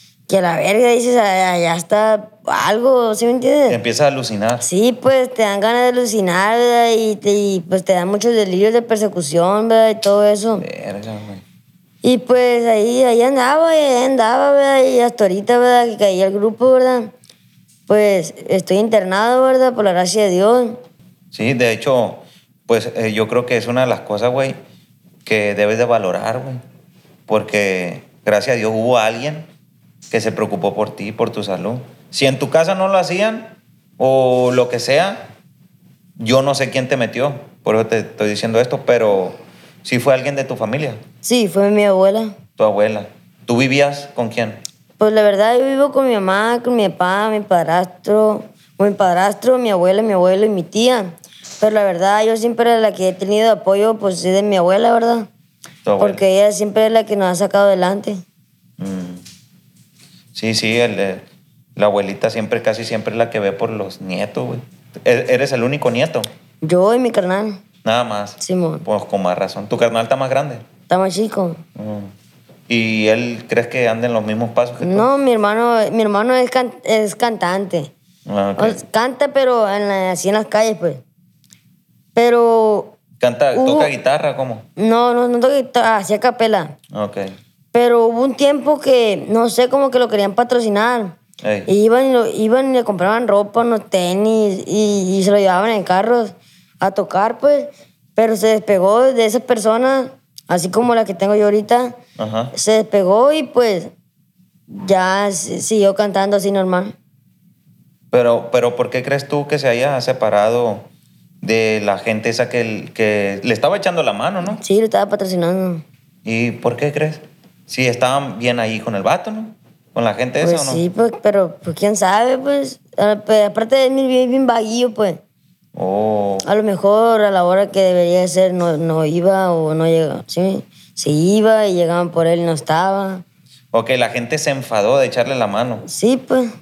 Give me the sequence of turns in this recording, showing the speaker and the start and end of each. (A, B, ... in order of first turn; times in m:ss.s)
0:00.3-0:03.8 A
0:03.7-0:04.6 B
0:04.6-0:10.6 A
0:10.6-0:11.4 B
0:12.0-0:17.1 A
0:17.9-0:20.8 A
0:21.3-0:24.6 B
0:25.2-0:26.6 B
0:27.3-0:29.5 B
0:30.1-0:35.3 B
0:36.2-0:41.0 B
0:41.2-0:42.3 A
0:42.6-0:44.6 B
0:45.0-0:55.3 A
0:55.8-0:56.2 B
0:56.0-0:58.2 A
0:58.8-0:59.2 B
1:00.3-1:01.2 B
1:01.8-1:06.3 B
1:06.6-1:07.6 A
1:07.8-1:10.6 B
1:08.4-1:08.8 A
1:10.9-1:11.6 A
1:11.8-1:12.1 B
1:12.7-1:15.1 B
1:14.8-1:17.9 A
1:18.2-1:18.8 B
1:18.6-1:21.0 A
1:22.1-1:23.0 A
1:23.2-1:24.6 B
1:23.5-1:23.9 A
1:24.8-1:26.7 A
1:26.9-1:27.3 B
1:27.7-1:42.0 A
1:31.4-1:31.7 B
1:42.2-1:42.5 B
1:42.5-1:43.9 A
1:44.7-1:46.9 A
1:48.1-1:50.9 B
1:51.4-1:54.6 B
1:54.4-1:55.8 A
1:56.2-2:00.8 B
2:00.4-2:05.2 A
2:05.7-2:06.4 B
2:06.4-2:13.2 A
2:13.7-2:15.8 B
2:15.8-2:16.5 A